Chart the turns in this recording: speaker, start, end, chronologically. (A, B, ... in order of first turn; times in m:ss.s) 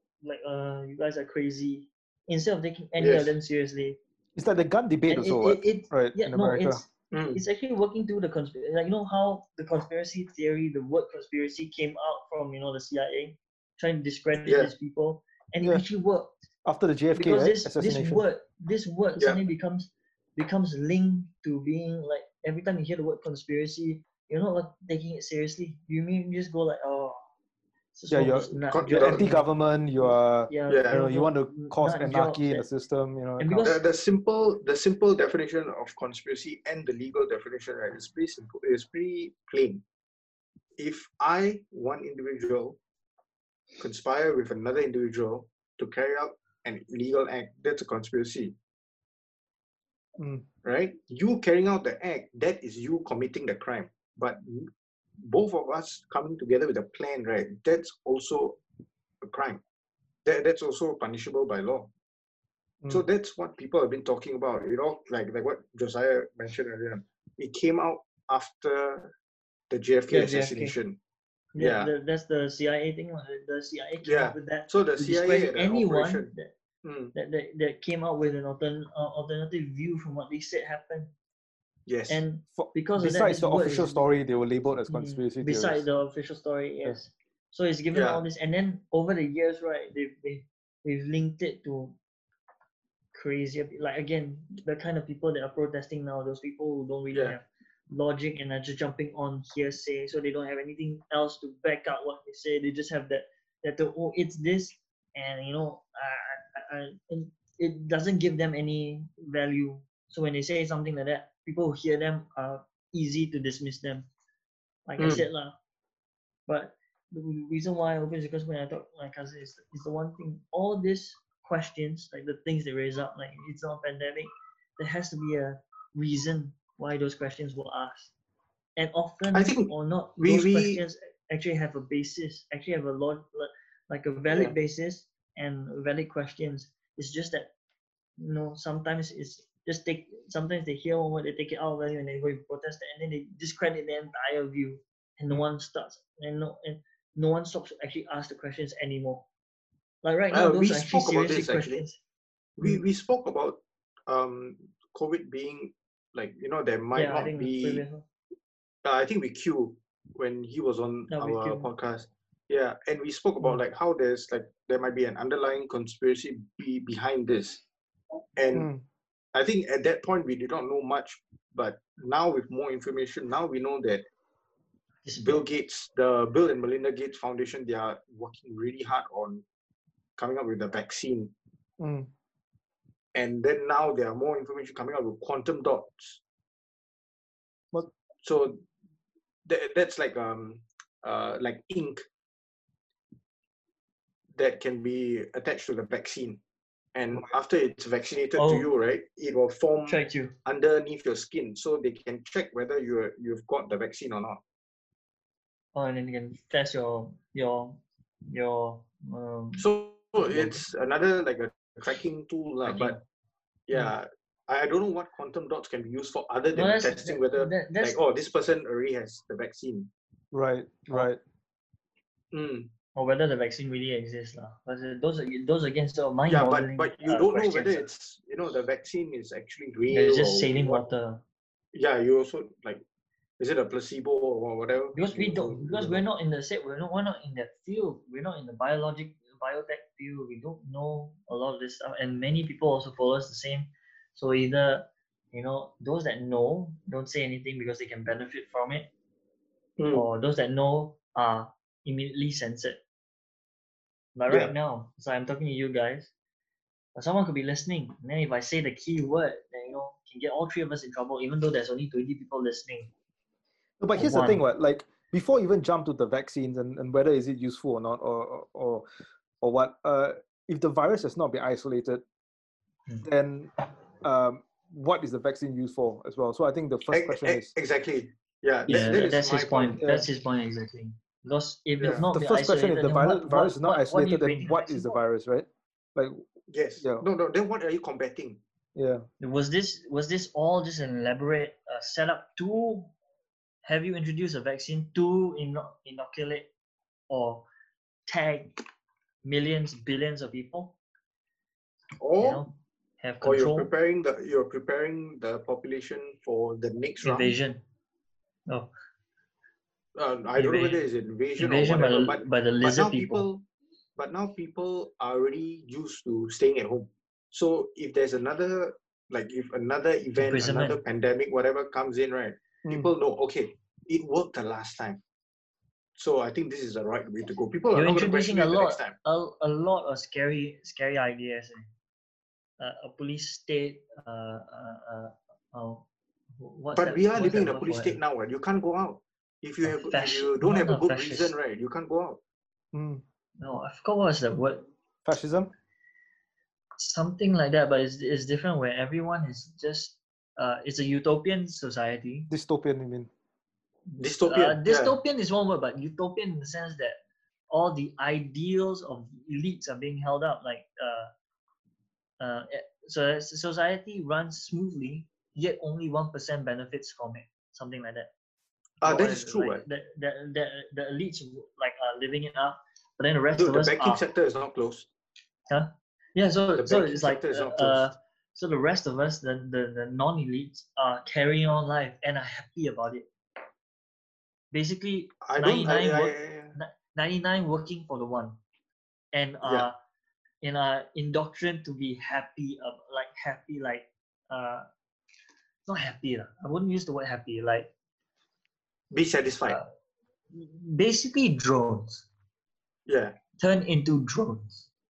0:00.2-0:04.0 A
0:03.0-0:03.3 B
0:04.4-0:06.8 C
0:05.1-0:16.5 A
0:07.1-0:07.4 B
0:14.4-0:14.7 B
0:16.6-0:18.2 C
0:17.2-0:27.2 A
0:27.9-0:29.5 A
0:28.1-0:33.6 C
0:28.7-0:29.3 B
0:30.0-0:32.7 A
0:30.7-0:31.0 B
0:33.4-0:33.8 A
0:33.6-0:39.8 B
0:40.8-0:42.8 B
0:43.8-0:48.6 B
0:50.2-0:50.5 C
0:50.6-0:58.6 B
0:59.2-0:59.6 B
1:00.2-1:01.9 B
1:02.9-1:09.1 B
1:09.7-1:11.0 B
1:10.1-1:10.8 A
1:11.6-1:16.5 A
1:11.6-1:11.9 B
1:14.0-1:16.3 B
1:16.8-1:17.1 B
1:17.1-1:21.1 A
1:21.9-1:22.2 B
1:22.1-1:24.1 A
1:22.6-1:25.8 C
1:24.9-1:32.0 A
1:27.9-1:28.2 B
1:33.1-1:54.1 A
1:54.9-1:55.6 A
1:55.0-1:55.2 B
1:56.5-2:08.1 A
2:08.8-2:17.5 A
2:09.3-2:10.8 B
2:14.3-2:14.6 B
2:18.2-2:29.3 A
2:30.0-2:32.0 A
2:30.3-2:31.8 B
2:32.6-2:37.8 B
2:36.9-2:38.0 A
2:38.8-2:47.6 B
2:41.1-2:41.7 A
2:48.4-2:48.7 B
2:48.5-2:48.8 C
2:49.3-2:54.0 B
2:55.0-2:55.4 A
2:55.2-2:59.4 B
3:00.2-3:01.3 B
3:01.8-3:02.1 C
3:03.2-3:06.2 B
3:08.2-3:08.6 B
3:09.5-3:12.0 B
3:14.4-3:16.4 B
3:17.0-3:24.4 B
3:18.4-3:18.7 A
3:19.9-3:20.4 A
3:25.8-3:29.7 A
3:29.6-3:33.0 B
3:30.2-3:30.6 A
3:32.6-3:33.0 A
3:33.7-3:39.9 B
3:36.5-3:38.0 A
3:40.3-3:41.2 C
3:42.3-3:42.7 B
3:43.0-3:47.9 A
3:46.3-3:50.8 B
3:49.9-3:51.2 A
3:51.7-3:52.8 B
3:53.4-3:56.0 B
3:54.9-4:08.9 A
4:09.8-4:10.1 B
4:09.9-4:12.8 A
4:14.2-4:16.1 A
4:14.3-4:14.5 B
4:17.0-4:22.9 A
4:23.8-4:28.9 C
4:24.0-4:24.4 A
4:29.4-4:32.0 C
4:33.0-4:33.5 C
4:34.0-4:37.5 C
4:36.9-4:39.8 B
4:38.7-4:45.0 A
4:39.8-4:40.1 C
4:41.8-4:42.0 B
4:42.1-4:46.2 C
4:46.5-4:48.4 B
4:46.8-4:47.1 C
4:48.8-4:49.0 C
4:49.2-4:52.9 A
4:53.6-4:56.5 A
4:57.1-4:57.5 A
4:58.1-4:58.6 A
4:59.2-5:00.8 A
5:02.0-5:02.5 B
5:02.2-5:03.7 A
5:03.2-5:07.4 B
5:07.0-5:07.6 A
5:10.0-5:13.4 B
5:10.4-5:10.8 A
5:11.4-5:13.3 A
5:14.0-5:25.0 B
5:20.2-5:20.8 A
5:22.7-5:22.9 C
5:26.0-5:29.0 B
5:27.7-5:31.7 A
5:32.6-5:35.8 A
5:36.4-5:38.0 A
5:36.8-5:42.2 B
5:39.6-5:41.3 A
5:42.7-5:43.0 C
5:43.4-5:44.7 A
5:45.0-5:45.5 C
5:46.8-5:52.3 A
5:52.3-5:53.1 C
5:53.9-5:57.0 A
5:54.0-5:55.0 B
5:57.5-6:01.1 A
6:02.2-6:08.1 A
6:08.8-6:09.6 B
6:08.8-6:14.0 A
6:13.4-6:14.9 B
6:15.5-6:23.1 A
6:16.6-6:17.9 B
6:24.5-6:28.4 A
6:25.2-6:26.6 B
6:29.1-6:29.8 A
6:29.4-6:29.7 B
6:30.4-6:34.7 A
6:35.7-6:37.7 A
6:38.9-6:39.6 B
6:40.3-6:42.1 A
6:42.9-6:43.2 B
6:43.4-6:44.7 A